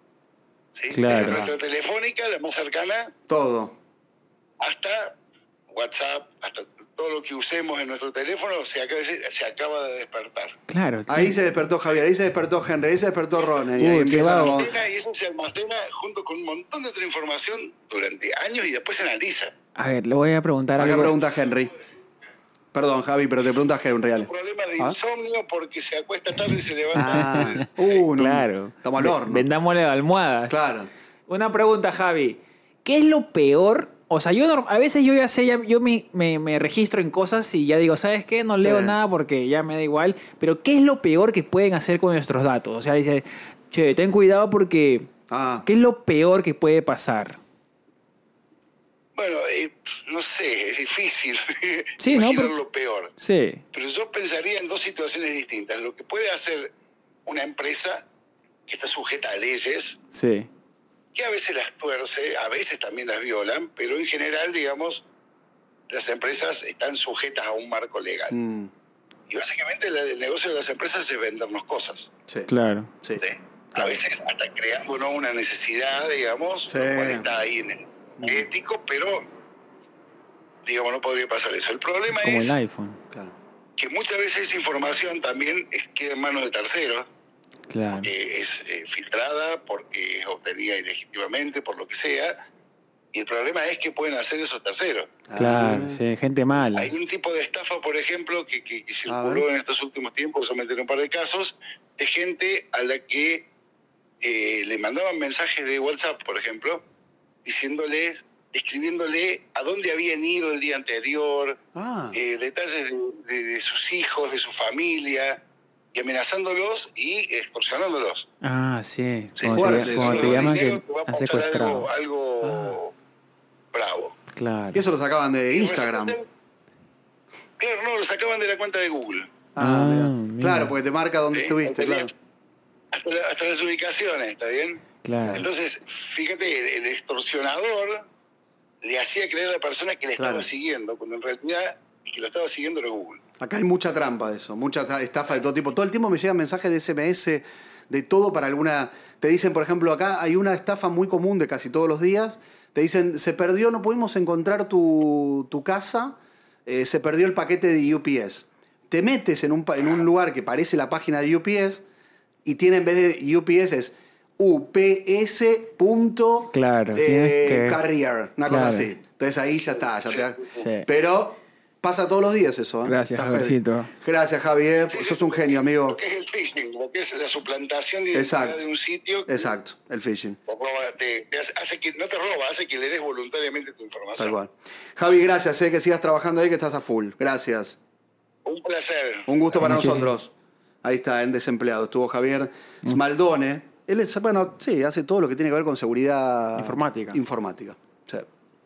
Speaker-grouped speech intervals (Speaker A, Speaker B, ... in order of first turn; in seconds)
Speaker A: 0.7-3.1, 4.6-5.2, 5.7-10.5, 13.3-19.5, 24.1-27.6, 49.1-53.1, 53.7-56.7, 57.2-58.0, 58.7-60.0, 61.1-65.0, 65.9-68.3, 69.3-72.1, 73.2-79.2, 80.6-82.5, 83.8-87.1, 87.9-92.4, 93.1-95.2, 96.7-103.5, 104.2-106.8, 107.4-111.6, 112.1-115.4, 115.9-118.3, 119.4-122.9, 123.7-124.2, 125.5-126.2, 127.6-129.3, 131.3-132.1, 132.9-138.1, 138.8-143.2, 170.1-170.4, 174.9-179.5, 180.5-184.3, 188.4-189.3
Speaker B: 0.9-1.4, 10.7-11.4, 13.8-14.7, 19.7-21.2, 26.9-30.7, 31.3-45.1, 45.6-47.4, 52.0-52.5, 53.2-53.6, 60.1-60.5, 72.5-72.9, 82.1-83.0, 87.7-88.1, 95.3-96.9, 118.4-121.9, 124.3-124.8, 129.6-130.7, 135.0-135.4, 166.5-167.8, 168.5-168.9, 170.5-170.9, 172.8-173.9, 189.6-190.1, 196.6-197.2
Speaker C: 1.1-1.5, 3.3-3.7, 11.1-14.7, 20.8-21.7, 22.7-25.0, 26.9-29.4, 30.5-30.9, 38.6-38.9, 45.3-45.6, 68.3-68.7, 76.7-77.2, 78.2-78.4, 95.3-96.0, 99.1-99.4, 111.7-112.2, 119.5-120.5, 124.7-126.2, 129.6-132.1, 140.2-140.5, 143.4-161.8, 162.4-176.0, 178.1-178.7, 179.3-180.4, 184.2-187.8, 189.3-190.3, 190.8-198.2